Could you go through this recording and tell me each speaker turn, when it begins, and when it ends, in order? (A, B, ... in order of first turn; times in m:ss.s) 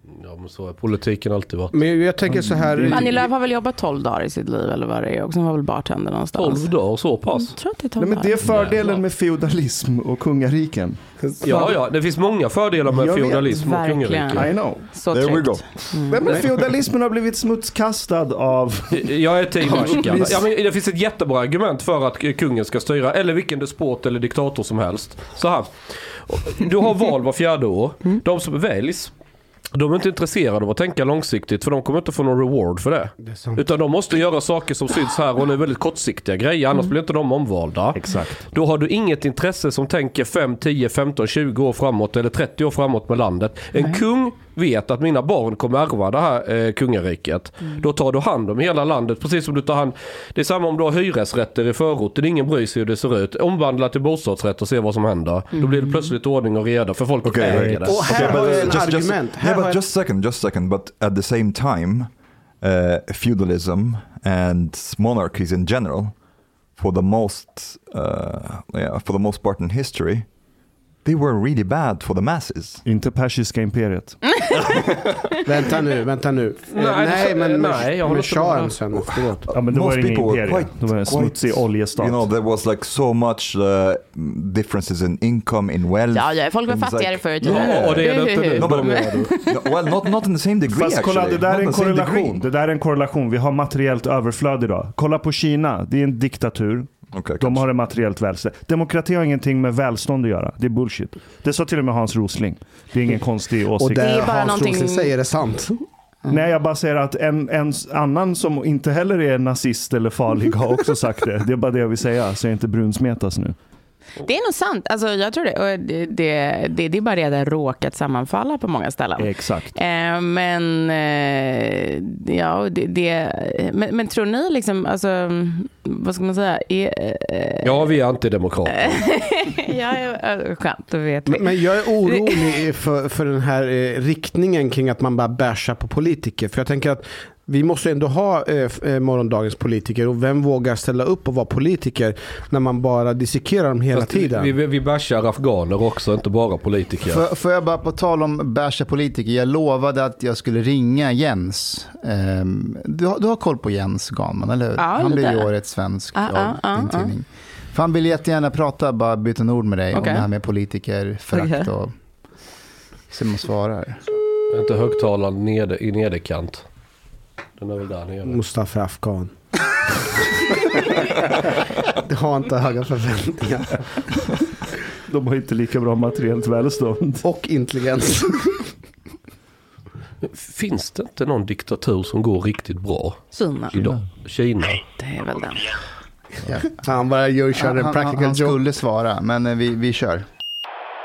0:00.2-0:01.9 A
0:01.7-0:03.2 B
0:02.2-0:03.0 C
0:02.9-0:06.7 D
0:06.3-0:07.5 A
0:07.3-0:08.4 D
0:08.0-0:11.0 C
0:08.5-0:08.8 A
0:11.2-0:11.6 B
0:11.4-0:14.5 A
0:12.8-0:13.5 C
0:13.4-0:16.2 D
0:14.3-0:14.8 C
0:15.1-0:16.6 E
0:16.1-0:20.4 C
0:18.9-0:25.7 A
0:26.3-0:29.1 A
0:29.7-0:58.5 A
0:33.2-0:33.6 B
0:37.9-0:38.5 C
0:55.5-0:56.1 D
0:57.2-1:06.1 E
0:57.5-0:58.3 C
0:57.5-0:59.8 B
1:06.8-1:10.3 E
1:11.0-1:12.8 E
1:12.8-1:14.4 C
1:15.4-1:19.5 B
1:16.7-1:18.8 A
1:19.0-1:32.4 E
1:19.5-1:22.3 C
1:26.1-1:29.9 D
1:27.4-1:29.3 A
1:30.7-1:44.1 C
1:37.1-1:37.7 E
1:43.8-1:45.8 B
1:43.9-1:45.1 D
1:46.3-1:53.6 C
1:54.2-2:07.9 D
1:59.2-1:59.7 C
2:07.6-2:09.1 A
2:08.7-2:12.6 D
2:11.2-2:24.5 B
2:23.9-2:27.2 A
2:27.0-2:41.9 F
2:34.8-2:35.5 D
2:36.1-2:37.1 D
2:39.9-2:40.3 D
2:41.3-2:41.7 D
2:43.1-2:44.0 F
2:44.5-2:46.6 A
2:47.6-2:48.4 A
2:48.2-2:49.3 B
2:52.0-2:53.9 B
2:55.1-2:57.2 C
2:57.2-2:58.7 B
3:00.2-3:04.8 A
3:03.3-3:03.9 D
3:04.9-3:05.7 D
3:06.7-3:08.6 B
3:07.5-3:10.2 F